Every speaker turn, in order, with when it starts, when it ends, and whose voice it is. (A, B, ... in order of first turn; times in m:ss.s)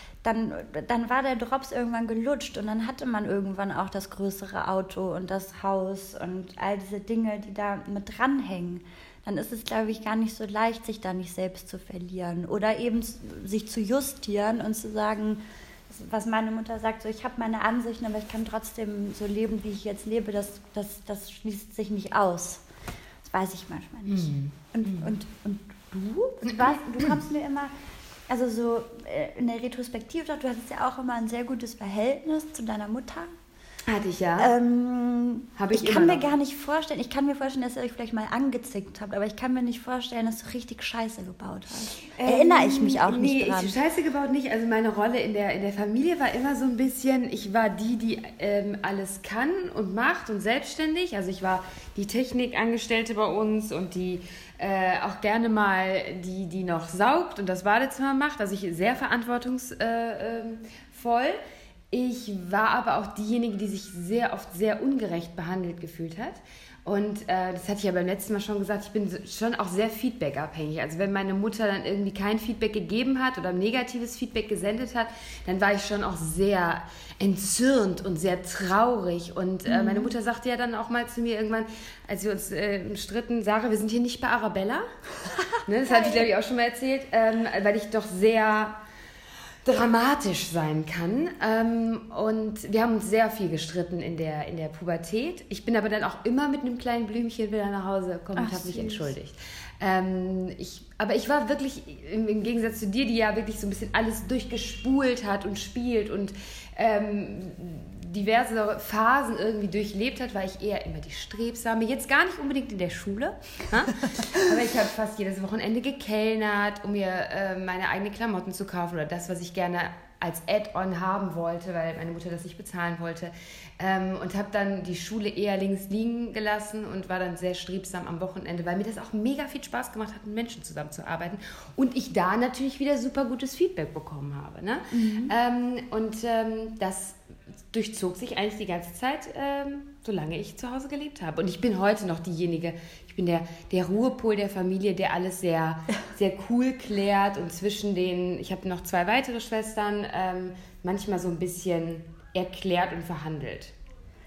0:00.2-0:22.6 A
0:23.2-0:27.7 A
0:24.1-0:25.1 B
0:28.3-0:33.3 A
0:33.9-0:34.5 B
0:34.4-0:43.8 A
0:35.6-0:36.3 B
0:42.2-1:01.4 B
1:01.9-1:24.8 B
1:19.7-1:20.1 A
1:25.5-1:26.2 A
1:25.7-1:28.8 B
1:29.6-2:17.2 B
1:38.4-1:39.1 A
2:14.9-2:15.3 A
2:17.7-2:33.7 B